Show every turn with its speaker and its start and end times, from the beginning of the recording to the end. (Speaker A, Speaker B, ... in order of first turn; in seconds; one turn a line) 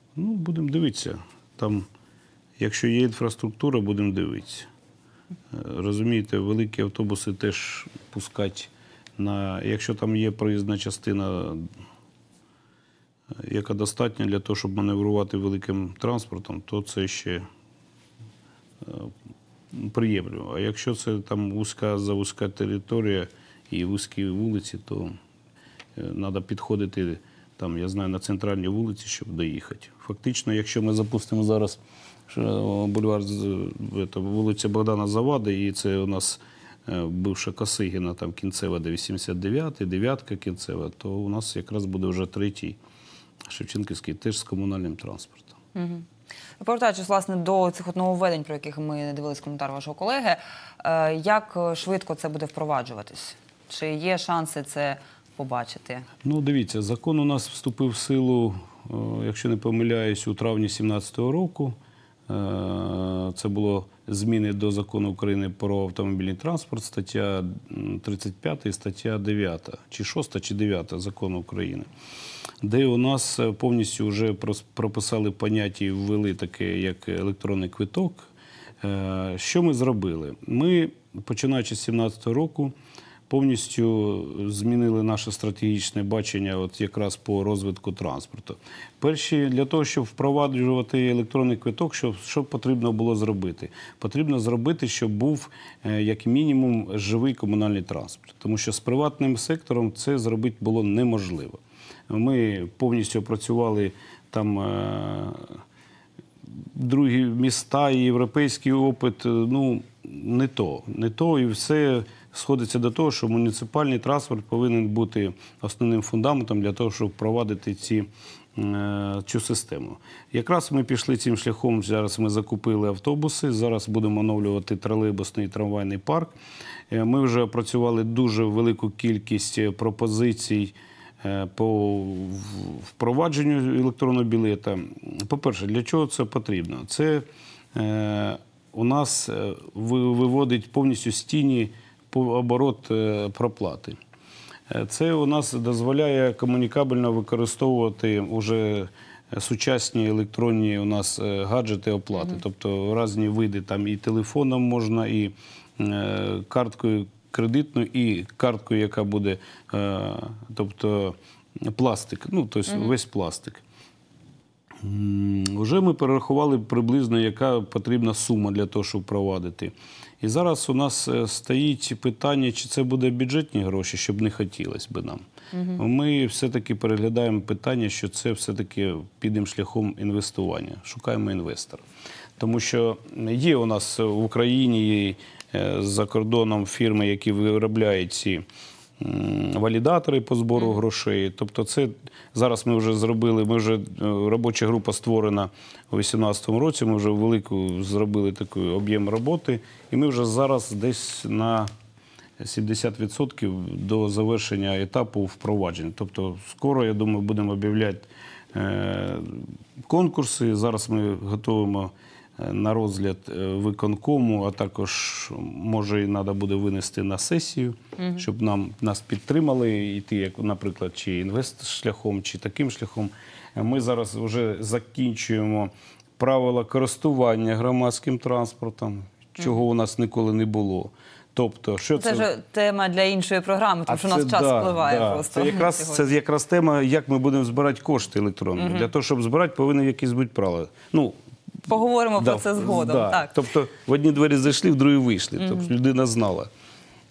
Speaker A: 0.1-1.9
Speaker A: 2.6-4.7
Speaker A: 5.5-11.6
Speaker A: 13.4-17.5
Speaker A: 18.8-19.1
Speaker A: 19.7-25.1
Speaker A: 25.9-42.8
Speaker A: 43.5-45.6
Speaker B: 45.7-46.0
Speaker B: 46.6-56.1
Speaker A: 56.2-61.8
Speaker A: 62.3-71.9
Speaker A: 72.6-78.3
Speaker A: 78.8-82.7
Speaker A: 83.3-105.6
Speaker A: 106.7-126.3
Speaker A: 126.9-144.0
Speaker A: 144.7-163.6
Speaker A: 164.8-175.2
Speaker B: 175.5-175.8
Speaker A: 175.8-181.8
Speaker A: 182.4-188.4
Speaker A: 189.0-201.7
Speaker A: 202.4-232.3
Speaker B: 218.0-218.2
Speaker B: 232.0-236.1
Speaker A: 233.9-241.2
Speaker B: 238.6-238.9
Speaker B: 241.7-243.3
Speaker A: 242.2-246.5
Speaker B: 245.4-245.7